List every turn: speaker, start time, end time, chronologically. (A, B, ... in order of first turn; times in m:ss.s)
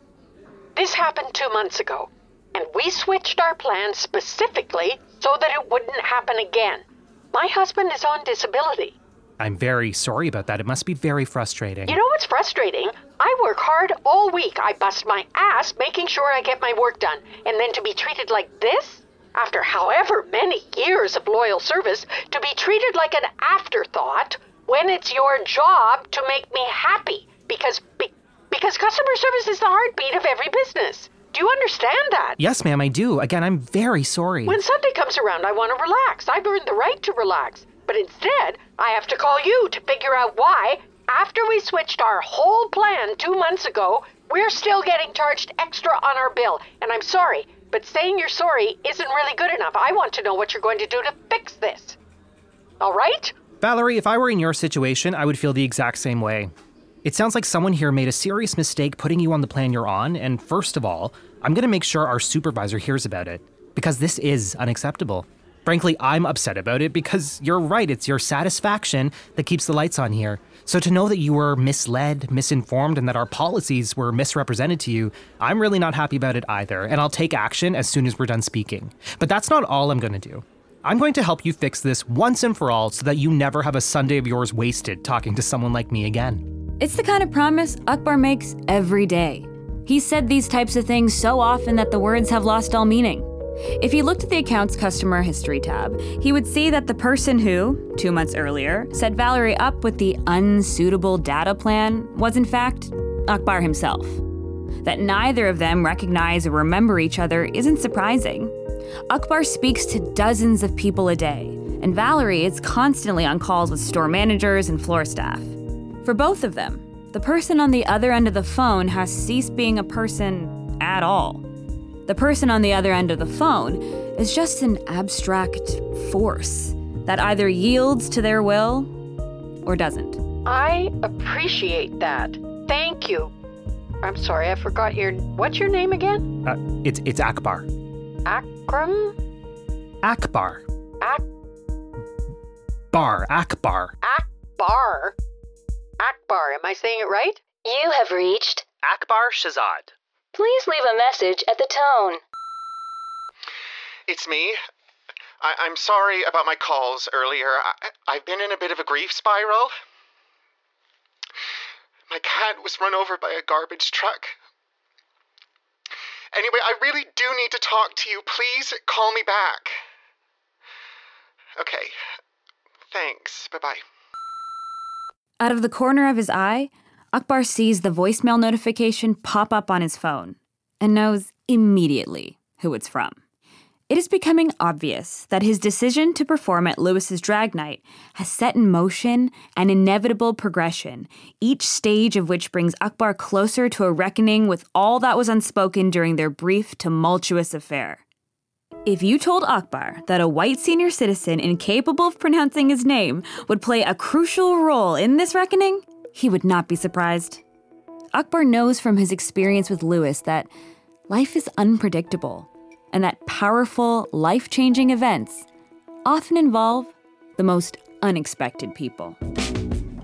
0:00.8-0:09.0 A
0:09.4-0:12.0 B
0:11.9-0:32.4 A
0:32.4-0:34.6 B
0:34.4-0:52.0 A
0:52.8-0:53.3 A
0:53.6-0:56.5 B
0:57.0-1:26.4 B
1:26.8-1:44.2 C
1:44.8-1:48.5 C
1:49.1-2:01.4 C
2:02.1-2:08.9 C
2:09.6-2:10.2 C
2:10.4-2:13.3 A
2:14.0-2:16.3 A
2:16.4-2:17.7 B
2:18.2-2:19.2 A
2:20.0-2:20.6 B
2:22.9-2:23.9 B
2:24.0-2:25.2 A
2:26.0-2:27.6 A
2:27.6-2:28.6 D
2:28.8-2:29.9 B
2:30.3-2:32.2 D
2:34.1-2:34.6 E
2:35.4-2:39.7 E
2:42.1-2:44.4 E
2:46.3-2:49.8 E
2:51.6-2:51.9 E
2:52.9-2:53.8 E
2:55.4-3:03.2 C
3:03.9-3:18.0 C
3:18.8-3:27.4 C
3:28.1-3:30.5 C
3:31.1-3:35.5 C
3:36.0-3:39.2 C